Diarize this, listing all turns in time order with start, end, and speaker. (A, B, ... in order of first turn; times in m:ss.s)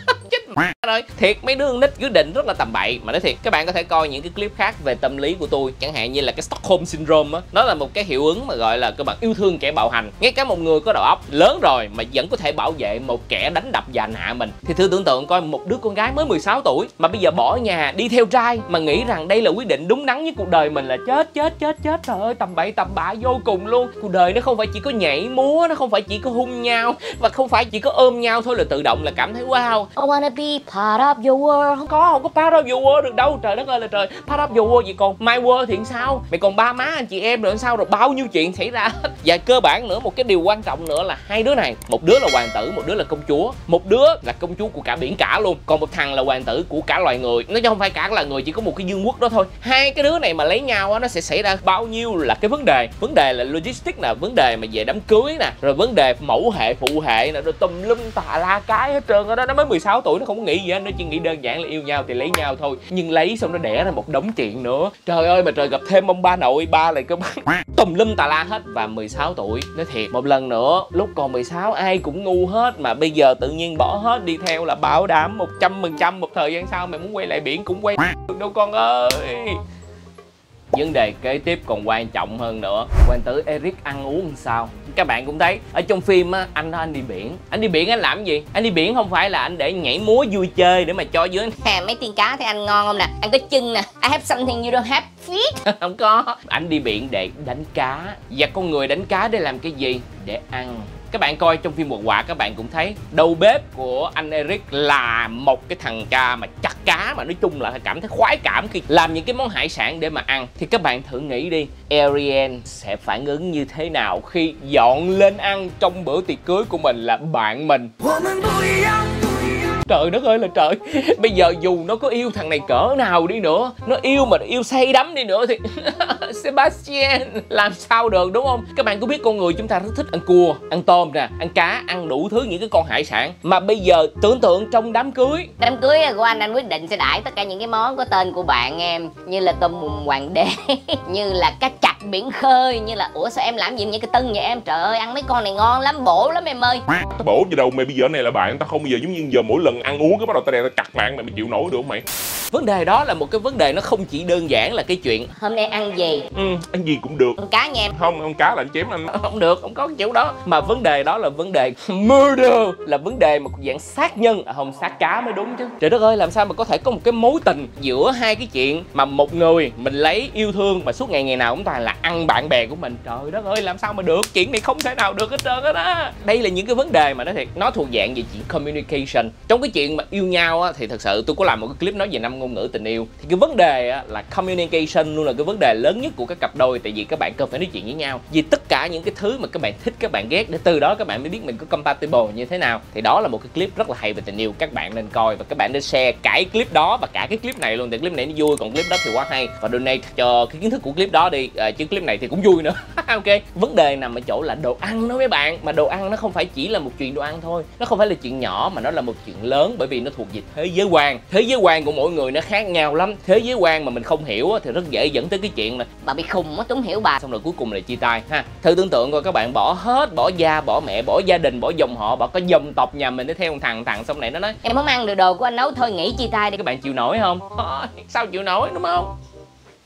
0:00.3-0:29.9 A
0:30.0-0:31.9 B
0:31.8-1:19.6 A
1:20.7-1:31.6 A
1:31.6-1:35.6 B
1:35.6-2:15.5 A
2:15.6-2:26.9 B
2:26.9-2:32.0 C
2:32.5-2:35.3 A
2:35.4-2:36.3 B
2:36.3-2:37.4 C
2:37.4-2:37.9 B
2:37.9-2:38.9 C
2:38.8-3:35.9 A
3:36.0-3:37.2 B
3:37.2-3:44.6 A
3:44.6-3:46.6 B
3:46.6-3:49.1 A